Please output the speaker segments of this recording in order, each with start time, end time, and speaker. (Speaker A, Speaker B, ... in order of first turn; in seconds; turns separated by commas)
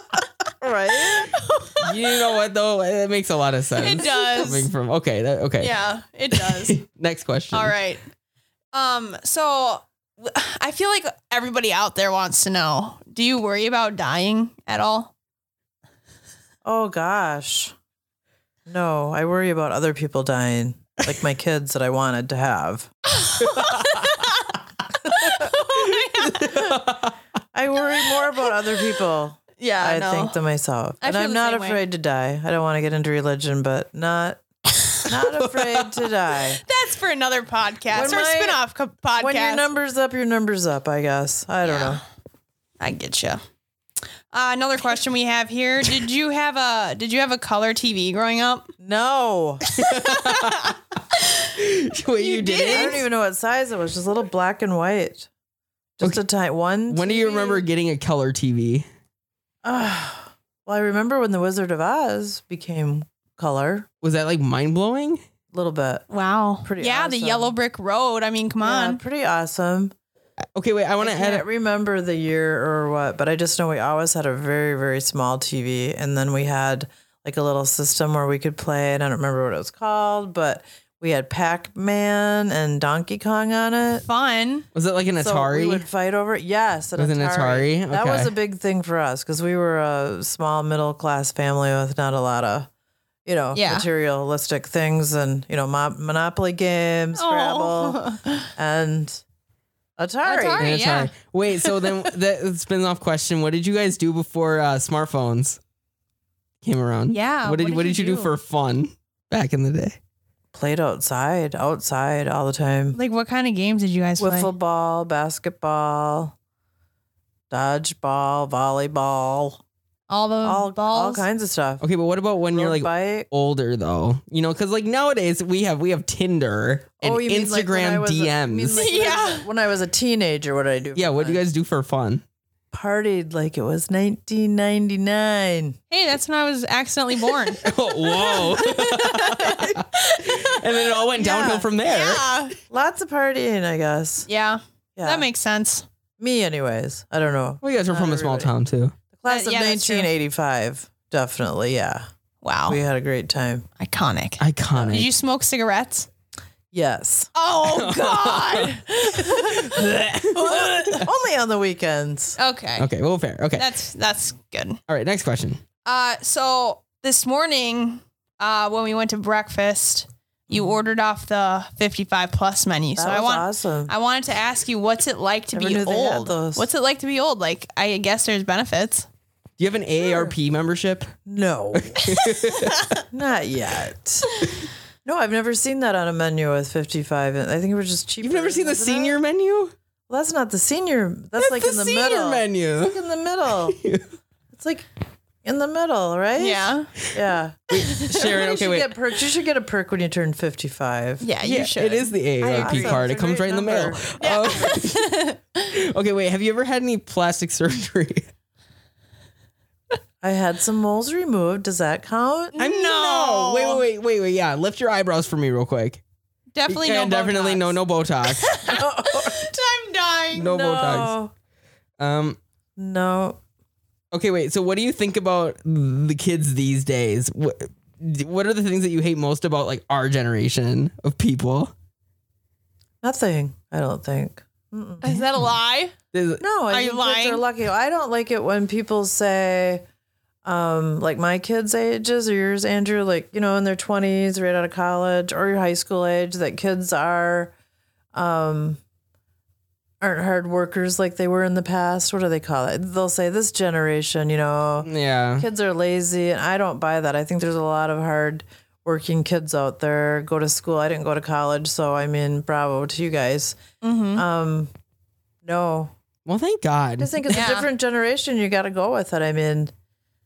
Speaker A: 0.6-1.4, Speaker B: 1.3-1.9, Speaker C: 1.8-5.7, Speaker B: 3.8-4.7, Speaker B: 5.6-6.8, Speaker C: 6.3-7.7, Speaker B: 7.5-8.0, Speaker B: 8.7-15.1, Speaker A: 16.6-17.7, Speaker A: 18.7-22.9, Speaker B: 23.2-24.3, Speaker C: 23.4-24.1, Speaker B: 25.1-26.6, Speaker C: 25.8-27.1, Speaker A: 27.5-36.6, Speaker B: 29.6-30.4, Speaker B: 31.0-31.8, Speaker C: 35.2-36.0, Speaker B: 36.6-39.6, Speaker A: 37.9-38.6, Speaker A: 39.1-42.0, Speaker B: 41.6-42.0, Speaker B: 42.8-43.4, Speaker B: 44.3-48.7, Speaker A: 48.8-49.6, Speaker C: 49.7-50.7, Speaker B: 49.9-51.3, Speaker C: 51.5-53.0, Speaker B: 52.2-53.0, Speaker A: 52.6-55.3, Speaker A: 56.0-57.6, Speaker C: 56.9-58.9, Speaker A: 59.6-63.9, Speaker C: 64.0-65.2, Speaker A: 65.5-66.0, Speaker B: 66.1-69.0, Speaker A: 66.6-67.5, Speaker A: 68.6-69.9, Speaker C: 70.5-71.4, Speaker A: 71.0-84.0, Speaker B: 84.0-84.7, Speaker C: 84.7-85.8, Speaker A: 85.2-92.7, Speaker C: 87.0-88.3, Speaker A: 93.2-98.0, Speaker B: 93.5-93.9, Speaker B: 97.2-98.5, Speaker A: 98.5-99.2, Speaker A: 100.0-100.8, Speaker B: 100.2-101.1, Speaker C: 100.6-105.6, Speaker C: 106.6-110.0, Speaker B: 107.1-108.3, Speaker A: 110.5-113.0, Speaker B: 112.9-114.5, Speaker A: 114.2-116.3, Speaker A: 117.5-119.6, Speaker B: 120.1-121.2, Speaker A: 120.4-121.8, Speaker C: 121.8-128.8, Speaker A: 122.5-123.3, Speaker A: 127.0-131.4, Speaker B: 128.7-129.5, Speaker C: 130.9-132.2, Speaker A: 132.7-135.8, Speaker B: 135.9-140.6, Speaker C: 137.6-142.3, Speaker A: 141.2-141.7, Speaker B: 141.8-142.5, Speaker A: 142.7-144.3, Speaker B: 144.3-145.8, Speaker A: 145.0-145.2, Speaker A: 146.2-148.5, Speaker C: 147.6-148.9, Speaker A: 149.1-152.1, Speaker B: 149.2-150.1, Speaker B: 152.4-152.8, Speaker A: 152.7-153.7, Speaker B: 153.8-156.1, Speaker C: 154.4-155.1, Speaker A: 156.7-157.3, Speaker B: 157.3-159.8, Speaker C: 157.6-161.1, Speaker A: 160.4-162.4, Speaker B: 162.4-162.9, Speaker C: 162.8-163.7, Speaker B: 163.6-164.8, Speaker C: 164.9-165.6, Speaker B: 165.8-179.1, Speaker A: 172.9-173.9, Speaker A: 175.5-176.7, Speaker C: 179.6-181.1, Speaker A: 180.0-180.3, Speaker A: 181.2-182.2, Speaker C: 181.7-182.9, Speaker A: 183.0-184.3, Speaker A: 185.0-189.2, Speaker C: 188.2-189.7, Speaker A: 190.1-193.8, Speaker C: 191.4-193.0, Speaker C: 193.7-194.1, Speaker A: 194.5-194.9, Speaker A: 195.4-201.2, Speaker B: 196.4-196.9, Speaker C: 197.7-198.9, Speaker B: 201.2-203.1, Speaker C: 201.4-208.3, Speaker A: 202.5-204.2, Speaker B: 204.2-205.4, Speaker A: 210.2-212.5, Speaker B: 212.5-213.8, Speaker C: 212.6-216.0, Speaker B: 216.5-217.8, Speaker C: 216.7-218.6, Speaker B: 218.4-220.5, Speaker A: 218.7-219.5, Speaker C: 220.3-221.2, Speaker A: 220.4-221.3, Speaker C: 222.0-222.4, Speaker A: 222.8-223.4, Speaker C: 224.1-231.7, Speaker A: 233.0-235.2, Speaker B: 235.0-235.9, Speaker C: 236.1-236.4, Speaker A: 236.4-239.8, Speaker B: 236.7-237.4, Speaker A: 240.4-247.5, Speaker A: 248.1-248.8, Speaker A: 250.0-263.6, Speaker C: 254.8-255.5, Speaker B: 263.8-264.2, Speaker A: 264.1-264.7, Speaker A: 265.4-265.9, Speaker C: 266.2-267.4, Speaker A: 267.0-269.7, Speaker B: 267.3-267.7